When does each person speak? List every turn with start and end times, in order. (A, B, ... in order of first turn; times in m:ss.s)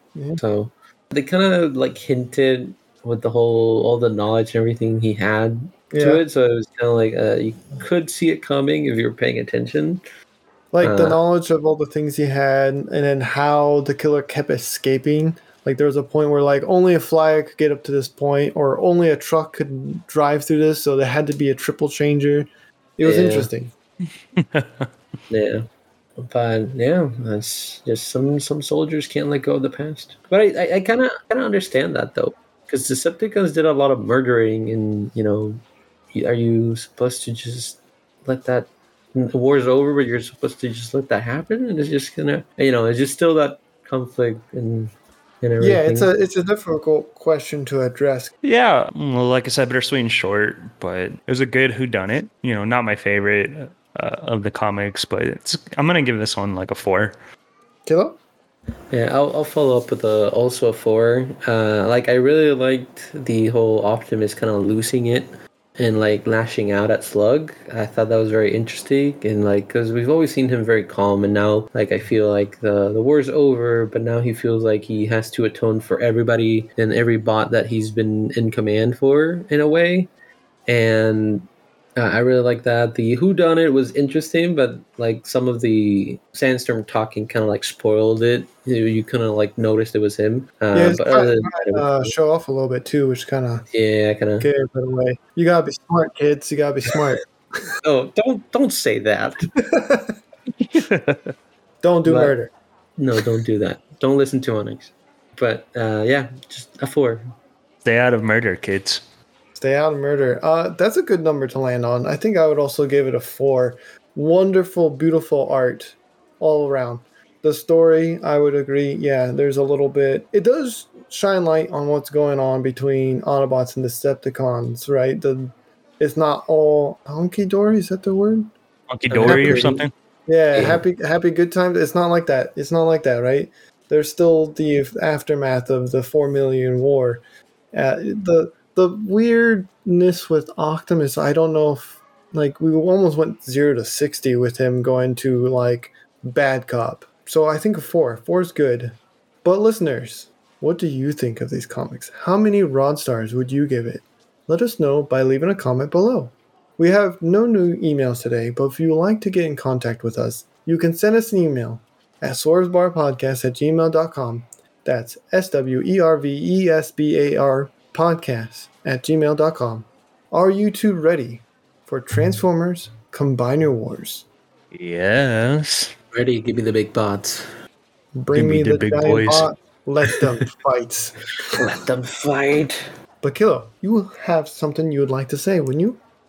0:00.2-0:00.4 A
0:00.4-0:10.0 B
0:05.9-0:06.2 A
0:10.7-0:23.7 A
0:10.8-0:11.2 B
0:23.0-0:23.5 B
0:24.4-0:24.9 C
0:25.3-0:35.6 B
0:36.1-0:46.1 B
0:45.6-0:48.3 A
0:48.4-0:57.2 C
0:57.9-0:58.2 A
0:58.9-1:20.1 B
1:20.7-1:32.1 B
1:30.7-1:33.7 A
1:33.7-1:34.5 B
1:34.4-1:37.2 A
1:37.8-1:39.5 B
1:39.6-1:40.2 A
1:40.6-1:41.3 C
1:41.8-1:42.5 A
1:42.0-1:42.4 B
1:43.0-1:47.3 B
1:47.8-1:49.0 C
1:49.6-2:08.5 A
2:08.9-2:09.9 C
2:09.1-2:09.8 B
2:09.2-2:17.2 A
2:10.5-2:10.8 B
2:17.7-2:54.3 A
2:54.7-2:55.9 C
2:56.1-2:57.5 B
2:58.2-3:01.2 A
2:58.4-2:59.5 C
3:01.5-3:02.8 B
3:03.2-3:06.0 A